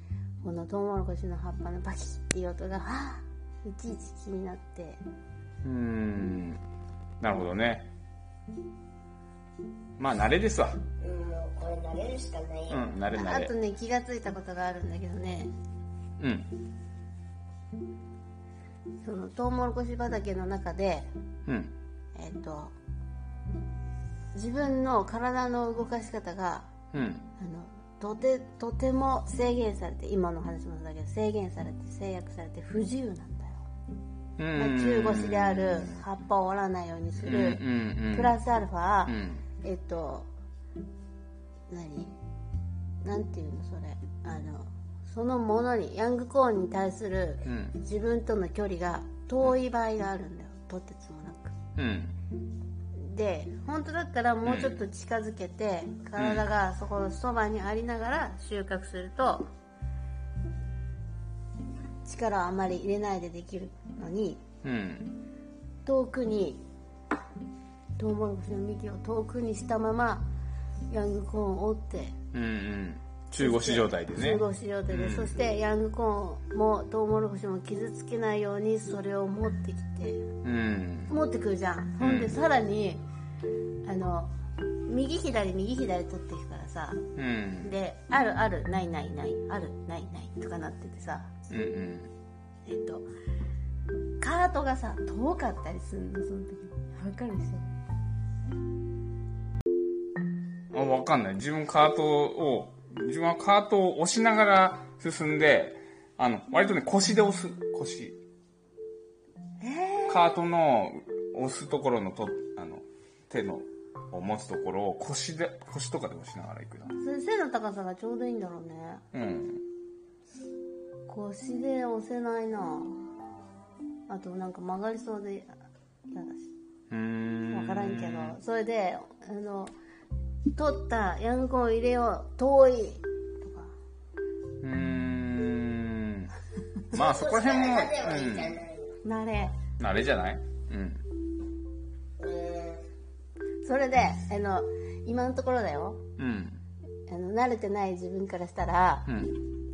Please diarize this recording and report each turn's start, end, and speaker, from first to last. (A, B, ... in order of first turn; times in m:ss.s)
0:00.4-0:05.0 A
0:05.6-0:06.6 B
0:07.2-0:07.9 B
0:10.0-0:10.8 B
0:11.0-0:12.9 C
0:12.7-0:13.5 B
0:13.1-0:15.5 A
0:16.2-0:16.5 B
0:19.0-0:21.1 A
0:21.5-0:21.7 B
0:22.1-0:22.8 A
0:24.3-0:26.7 A
0:26.9-0:27.3 B
0:27.4-0:33.6 A
0:34.4-0:36.0 B
0:34.6-0:40.3 A
0:37.2-0:38.4 B
0:39.1-0:39.4 B
0:41.7-0:42.1 A
0:43.0-0:51.5 A
0:47.4-0:47.8 B
0:51.8-0:52.1 B
0:53.0-0:59.5 A
0:54.4-0:54.8 B
0:56.2-0:56.4 B
1:02.0-1:04.4 A
1:04.6-1:05.2 B
1:05.8-1:06.6 A
1:08.0-1:10.3 A
1:10.9-1:12.1 A
1:12.3-1:15.4 B
1:13.4-1:20.2 A
1:20.4-1:21.1 B
1:21.1-1:23.0 A
1:22.0-1:22.4 B
1:23.8-1:24.3 A
1:24.8-1:27.0 A
1:27.2-1:27.7 B
1:27.6-1:31.3 A
1:31.5-1:32.1 B
1:32.7-1:33.1 A
1:34.2-1:37.7 A
1:40.7-1:48.2 B
1:49.6-1:50.4 A
1:50.1-1:57.0 B
1:57.0-1:59.0 A
1:59.1-1:59.6 B
2:01.1-2:03.0 A
2:04.1-2:05.5 A
2:06.1-2:06.5 A
2:06.9-2:08.4 B
2:07.5-2:09.7 A
2:10.5-2:13.7 A
2:14.6-2:16.3 B
2:16.9-2:18.6 B
2:16.9-2:19.0 C
2:19.0-2:19.5 A
2:19.8-2:21.0 B
2:22.2-2:22.9 C
2:23.6-2:26.0 A
2:26.2-2:26.6 B
2:27.1-2:29.1 A
2:29.0-2:29.4 B